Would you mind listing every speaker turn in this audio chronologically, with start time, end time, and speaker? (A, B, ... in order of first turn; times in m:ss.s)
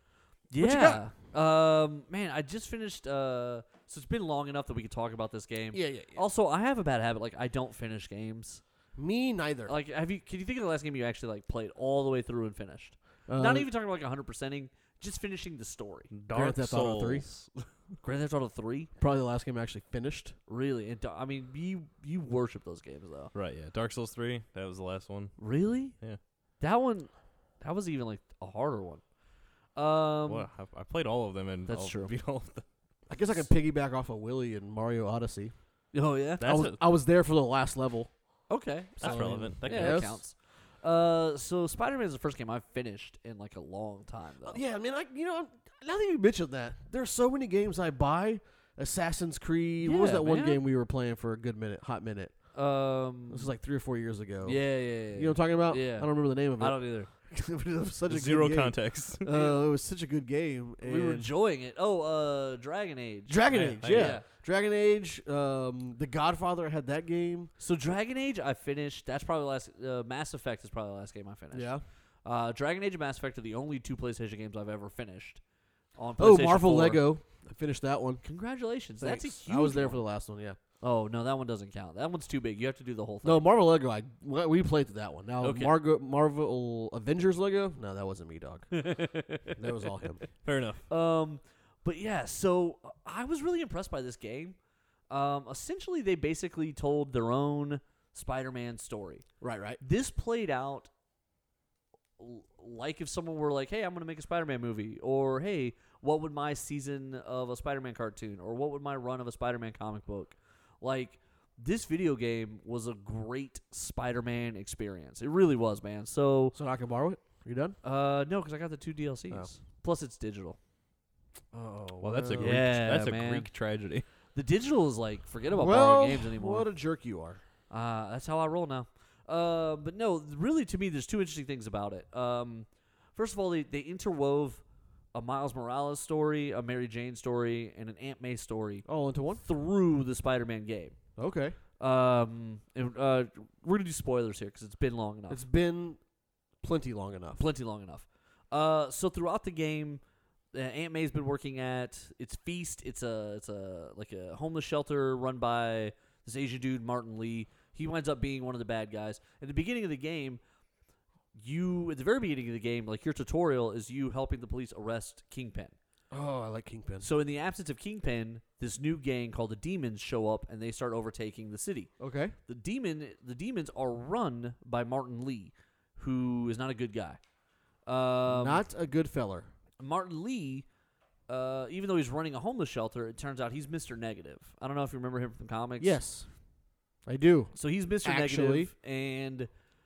0:00.5-0:08.6 A
0:00.6-0:01.0 B
0:05.7-0:06.2 B
0:09.0-0:09.7 B
0:09.7-0:16.1 A
0:13.3-0:13.7 B
0:16.1-0:17.5 C
0:16.3-0:17.3 B
0:18.0-0:18.9 A
0:19.0-0:20.4 B
0:20.5-0:23.3 A
0:23.3-0:25.4 C
0:25.4-0:26.0 A
0:26.6-0:29.0 A
0:29.7-0:30.5 A
0:30.3-0:32.6 C
0:31.7-0:32.2 A
0:33.1-0:35.5 B
0:35.9-0:36.7 A
0:36.4-0:38.1 B
0:36.4-0:36.8 C
0:38.5-0:44.6 A
0:39.0-0:40.2 B
0:39.0-0:40.2 C
0:44.4-0:52.3 B
0:49.8-0:50.6 A
0:52.5-0:53.5 A
0:53.3-1:01.3 B
0:54.4-0:57.1 A
0:58.1-0:59.2 C
0:59.3-0:59.6 A
1:00.8-1:04.2 A
1:03.3-1:07.5 B
1:03.5-1:04.2 C
1:07.6-1:11.7 A
1:11.5-1:11.8 B
1:12.2-1:15.4 A
1:16.0-1:17.0 A
1:16.2-1:18.2 B
1:18.2-1:20.0 A
1:19.0-1:20.6 B
1:20.8-1:23.5 A
1:23.2-1:28.9 B
1:25.4-1:25.7 A
1:28.8-1:29.4 A
1:29.5-1:30.2 B
1:30.4-1:30.8 C
1:30.9-1:34.6 A
1:35.1-1:39.2 A
1:39.4-1:39.8 B
1:39.8-1:40.9 A
1:42.2-1:56.6 A
1:56.5-1:57.8 B
1:57.8-2:00.6 A
2:01.5-2:02.6 B
2:02.0-2:04.0 C
2:02.4-2:03.5 A
2:04.3-2:06.7 A
2:05.5-2:07.4 B
2:07.7-2:14.6 A
2:15.1-2:18.8 A
2:18.8-2:19.4 B
2:19.4-2:21.0 A
2:21.2-2:21.6 B
2:21.8-2:25.4 A
2:25.3-2:26.0 B
2:26.6-2:27.4 B
2:27.4-2:30.0 A
2:30.5-2:40.4 A
2:41.3-2:45.8 A
2:46.1-2:47.1 B
2:47.0-2:51.9 A
2:52.0-2:52.4 B
2:52.5-2:57.2 A
2:57.8-2:58.6 A
2:58.2-2:59.5 B
2:59.8-3:00.7 A
3:01.3-3:06.0 A
3:05.8-3:06.3 B
3:07.0-3:08.7 B
3:07.5-3:09.5 A